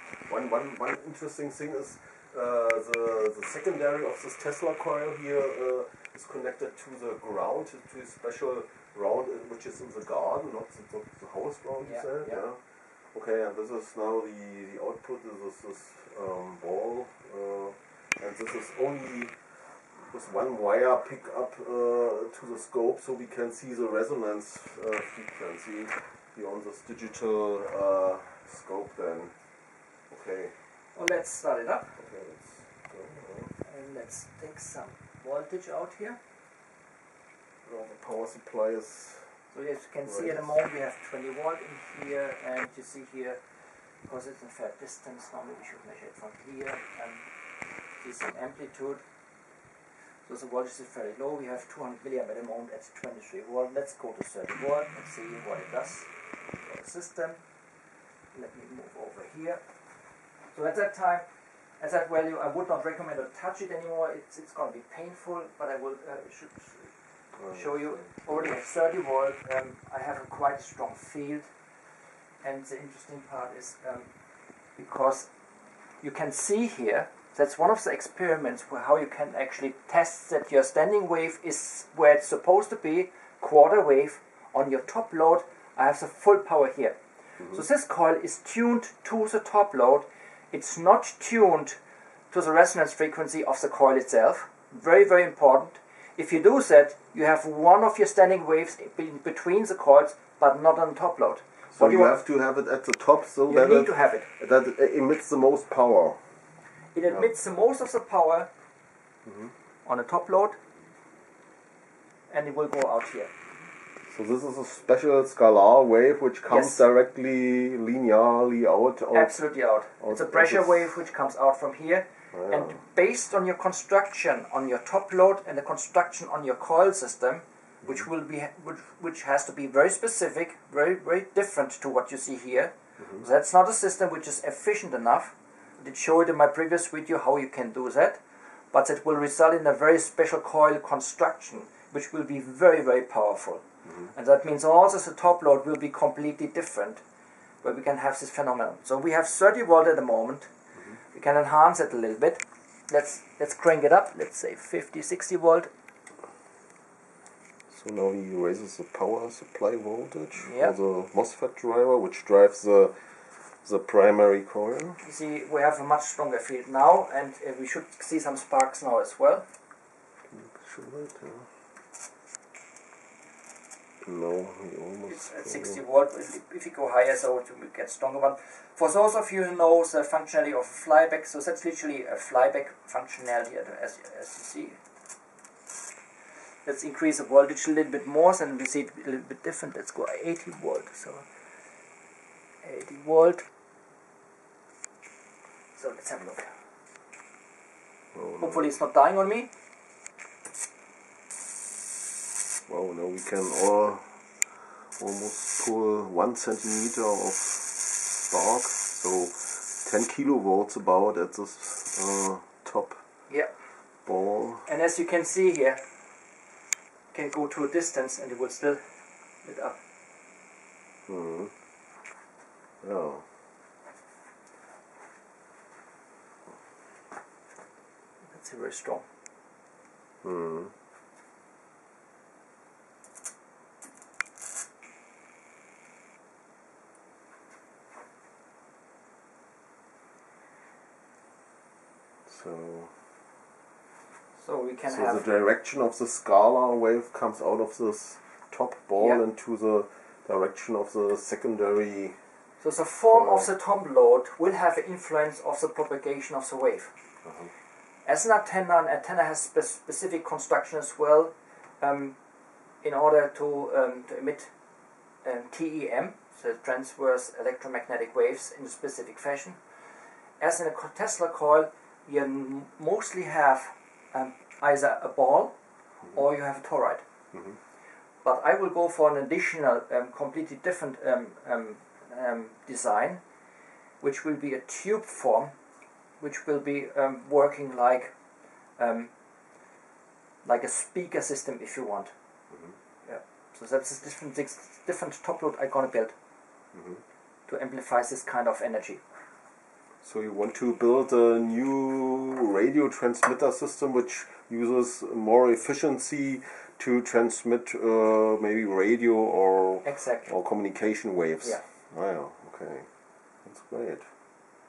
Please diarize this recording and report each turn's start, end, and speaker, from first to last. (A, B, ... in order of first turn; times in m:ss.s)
0:00.2-0:12.6 A
0:11.8-0:12.4 B
0:13.1-0:19.4 A
0:20.0-0:29.3 A
0:30.1-0:30.5 A
0:30.9-0:31.9 B
0:32.0-0:33.5 A
0:33.6-0:36.2 B
0:37.6-0:39.3 A
0:39.5-0:43.4 B
0:40.0-0:40.6 A
0:44.0-0:47.2 B
0:48.0-0:49.0 B
0:50.2-0:57.4 B
0:58.3-0:59.6 B
1:00.5-1:01.2 B
1:01.8-1:06.9 B
1:07.3-1:08.5 A
1:07.5-1:11.5 B
1:12.4-1:14.1 B
1:14.8-1:15.3 B
1:16.0-1:31.8 B
1:32.3-1:42.2 B
1:41.7-1:46.2 A
1:43.4-1:44.3 B
1:46.9-1:48.5 B
1:49.2-1:49.5 A
1:49.8-1:50.6 B
1:52.3-1:53.3 B
1:54.1-1:59.4 A
1:56.5-1:56.8 B
1:59.1-2:18.2 B
2:00.0-2:00.9 A
2:02.3-2:02.8 A
2:18.7-2:27.0 B
2:27.6-2:30.5 B
2:31.1-2:35.7 B
2:37.7-2:45.0 A
2:40.4-2:40.7 B
2:45.0-2:49.4 B
2:50.3-2:51.5 A
2:54.0-2:55.8 A
2:55.1-3:04.8 B
3:06.6-3:11.2 B
3:12.6-3:13.5 B
3:15.8-3:16.5 B
3:18.1-3:18.7 A
3:18.4-3:19.5 B
3:22.7-3:24.2 A
3:25.0-3:33.0 A
3:34.0-3:34.7 A
3:34.6-3:35.8 B
3:37.1-3:38.8 B
3:39.4-3:39.8 B
3:41.1-3:41.5 A
3:42.8-3:43.2 A
3:48.3-3:49.0 B
3:50.2-3:50.7 A
4:02.3-4:02.9 A
4:04.4-4:05.2 B
4:04.9-4:12.2 A
4:12.6-4:16.9 B
4:13.1-4:13.5 A
4:17.2-4:17.5 A
4:18.0-4:22.1 B
4:22.8-4:24.5 B
4:25.2-4:29.6 B
4:30.4-4:35.5 B
4:36.1-4:37.0 B
4:38.2-4:43.2 B
4:44.0-4:45.5 B
4:46.2-4:48.1 B
4:48.8-4:49.1 B
4:50.4-4:52.1 B
4:53.0-4:56.1 B
4:56.7-4:57.0 A
4:57.5-4:59.0 B
5:00.0-5:12.9 A
5:09.8-5:10.3 B
5:13.4-5:14.1 A